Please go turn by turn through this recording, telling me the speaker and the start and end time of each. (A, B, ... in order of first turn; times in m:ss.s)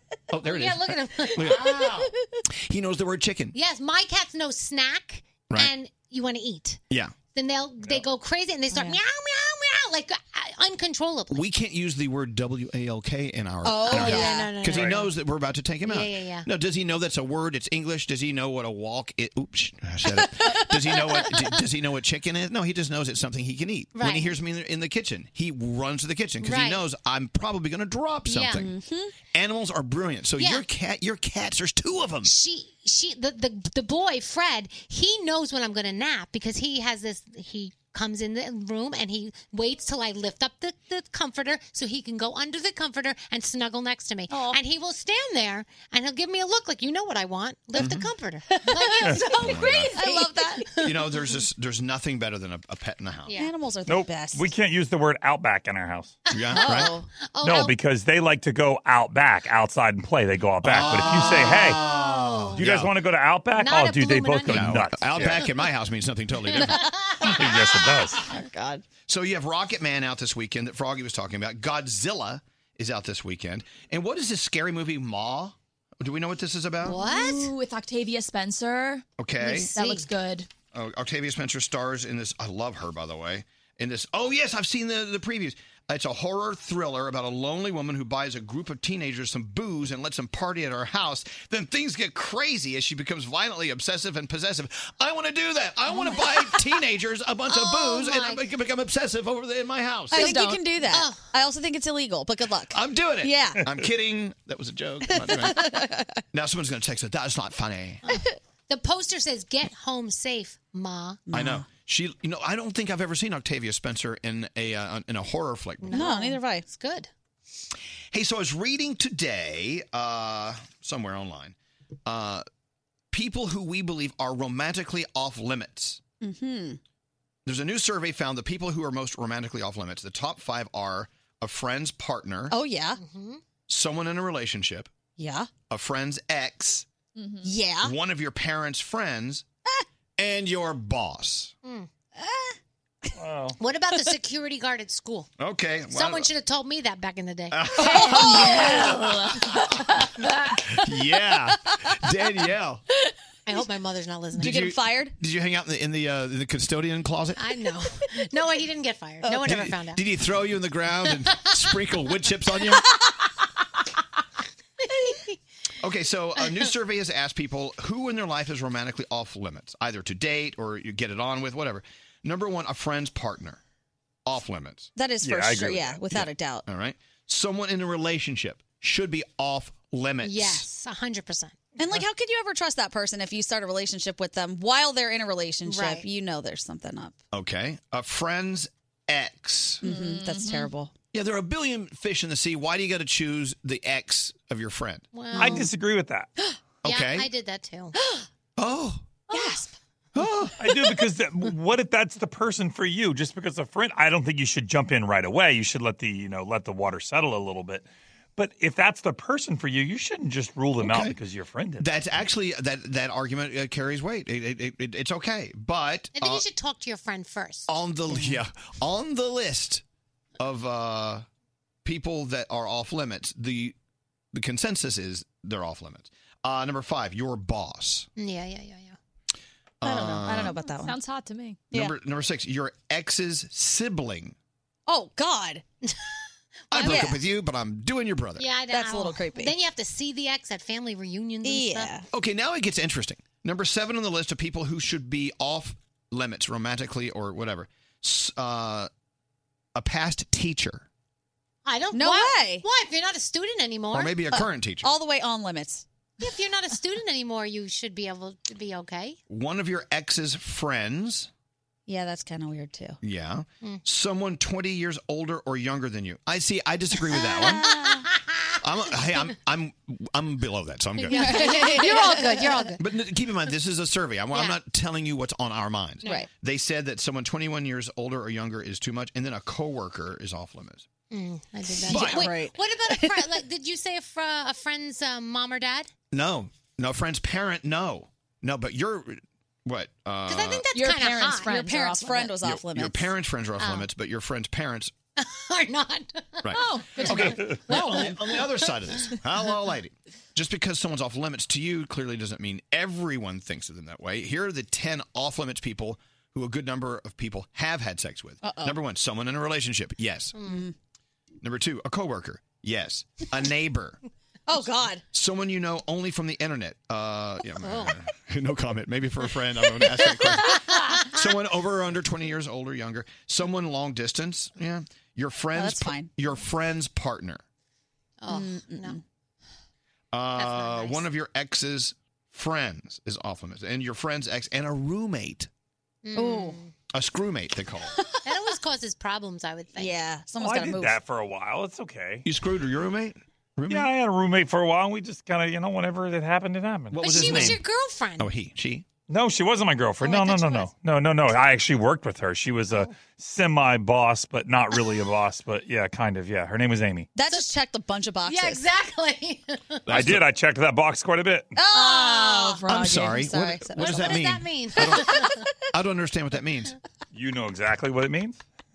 0:00.3-0:02.1 A
0:00.4-0:01.7 B
0:01.5-0:02.1 C
0:02.7-0:03.5 A
0:03.5-0:06.8 B
0:07.3-0:11.4 B
0:08.7-0:09.0 C
0:11.3-0:28.7 A
0:13.6-0:14.5 C
0:13.9-0:15.1 B
0:15.8-0:16.5 B
0:20.2-0:21.0 C
0:23.9-0:24.4 B
0:26.4-0:26.8 B
0:28.3-0:28.6 B
0:28.5-0:29.1 C
0:29.3-0:32.3 A
0:30.4-0:30.6 B
0:32.2-0:49.5 B
0:47.8-0:48.1 A
0:48.7-0:50.7 C
0:49.2-0:50.3 D
0:49.3-0:49.9 A
0:50.8-0:53.3 A
0:53.3-0:54.5 C
0:53.9-0:56.2 E
0:56.3-0:56.9 A
0:56.3-0:57.7 B
0:56.5-0:57.1 C
0:57.4-1:01.8 E
1:00.6-1:02.9 A
1:01.0-1:02.6 B
1:02.6-1:05.4 E
1:03.6-1:05.3 B
1:04.5-1:06.8 A
1:06.7-1:07.2 B
1:07.3-1:08.2 E
1:08.3-1:08.8 C
1:09.1-1:17.0 A
1:16.8-1:17.5 B
1:16.8-1:20.5 D
1:19.2-1:19.7 A
1:19.4-1:20.0 B
1:20.7-1:40.3 A
1:37.5-1:38.4 B
1:40.1-1:43.6 C
1:40.1-1:40.6 D
1:40.9-1:41.2 B
1:42.7-1:45.7 A
1:45.2-1:46.1 C
1:46.3-1:48.0 A
1:48.0-1:51.2 B
1:51.3-1:51.6 C
1:51.3-1:56.1 A
1:55.8-1:57.1 B
1:55.9-1:56.6 C
1:58.1-2:01.5 A
2:02.0-2:02.4 A
2:03.1-2:06.0 A
2:06.2-2:06.8 C
2:07.4-2:12.5 A
2:12.5-2:13.0 C
2:13.0-2:13.4 B
2:13.7-2:14.9 A
2:15.2-2:15.5 C
2:15.7-2:16.8 A
2:17.2-2:17.5 D
2:17.4-2:17.9 C
2:17.8-2:19.4 A
2:20.2-2:21.5 A
2:22.2-2:22.5 C
2:23.2-2:23.6 E
2:23.6-2:25.3 B
2:25.4-2:26.3 A
2:25.9-2:28.9 B
2:27.5-2:29.5 A
2:27.8-2:29.6 C
2:30.5-2:32.8 A
2:33.5-2:34.7 B
2:34.3-2:35.1 C
2:34.4-2:37.4 A
2:37.4-2:40.0 B
2:39.2-2:39.5 C
2:39.4-2:42.8 A
2:44.9-2:45.3 B
2:45.8-2:53.6 A
2:54.2-2:54.9 A
2:55.0-2:56.6 C
2:55.2-2:56.0 E
2:56.1-3:00.6 A
3:00.2-3:01.6 B
3:01.8-3:07.2 C
3:05.6-3:06.0 B
3:07.3-3:09.8 A
3:09.8-3:10.9 C
3:09.8-3:10.7 D
3:11.1-3:15.6 A
3:15.1-3:15.7 B
3:15.4-3:15.6 C
3:15.4-3:16.3 E
3:16.8-3:17.3 A
3:16.8-3:18.0 B
3:18.0-3:18.2 C
3:18.6-3:19.0 A
3:19.3-3:19.7 C
3:20.1-3:20.5 A
3:20.6-3:27.8 E
3:28.4-3:31.9 E
3:30.8-3:31.2 A
3:31.8-3:36.4 A
3:36.2-3:37.7 B
3:37.7-3:39.8 A
3:40.4-3:41.2 A
3:41.8-3:43.7 A
3:44.3-3:48.1 A
3:48.2-3:49.0 B
3:49.8-3:50.5 A
3:49.8-3:50.9 C
3:50.4-3:51.6 D
3:51.7-3:54.3 A
3:54.9-3:55.6 C
3:56.7-3:58.4 A
3:56.7-3:57.0 B
3:56.7-3:57.2 C
3:58.4-4:01.9 B
3:58.7-3:59.5 C
4:01.4-4:02.0 C
4:02.1-4:08.9 A
4:09.7-4:10.8 A
4:11.6-4:14.2 B
4:11.9-4:12.6 C
4:13.9-4:14.9 A
4:14.3-4:15.8 C
4:16.2-4:19.2 B
4:19.3-4:21.3 A
4:21.9-4:23.0 C
4:23.0-4:27.7 A
4:27.2-4:28.1 B
4:27.4-4:28.0 C
4:28.6-4:31.8 A
4:31.0-4:32.8 B
4:31.1-4:32.6 C
4:32.8-4:40.8 A
4:41.1-4:45.9 B
4:41.8-4:43.3 C
4:41.9-4:42.3 A
4:46.1-4:50.6 A
4:50.3-4:51.9 B
4:50.7-4:52.3 D
4:51.4-4:53.1 C
4:52.4-4:54.9 A
4:53.6-4:53.9 B
4:55.2-4:59.1 B
4:56.4-5:10.4 A
4:56.5-4:57.2 D
5:08.4-5:08.8 C
5:10.4-5:10.6 B
5:10.4-5:10.7 C
5:11.4-5:14.0 A
5:14.5-5:15.0 C
5:15.1-5:27.4 A
5:17.6-5:18.0 B
5:20.5-5:21.1 B
5:25.5-5:26.1 C
5:28.2-5:29.0 B
5:28.3-5:29.0 C
5:30.1-5:35.5 A
5:30.4-5:31.0 B
5:36.0-5:36.7 B
5:36.1-5:36.6 C
5:36.9-5:37.9 A
5:38.2-5:40.0 B
5:39.8-5:41.0 C
5:40.4-5:42.2 E
5:42.2-5:43.9 A
5:43.7-5:47.4 E
5:46.9-5:47.6 A
5:47.0-5:48.3 B
5:48.2-5:48.8 A
5:49.1-5:57.1 E
5:50.0-5:50.7 B
5:57.1-5:58.6 C
5:58.2-5:59.8 B
5:59.9-6:00.2 A
5:59.9-6:01.5 E
6:01.6-6:04.2 C
6:01.7-6:03.2 D
6:02.7-6:05.2 A
6:03.8-6:05.4 B
6:04.8-6:05.3 C
6:05.7-6:06.7 A
6:07.1-6:08.4 E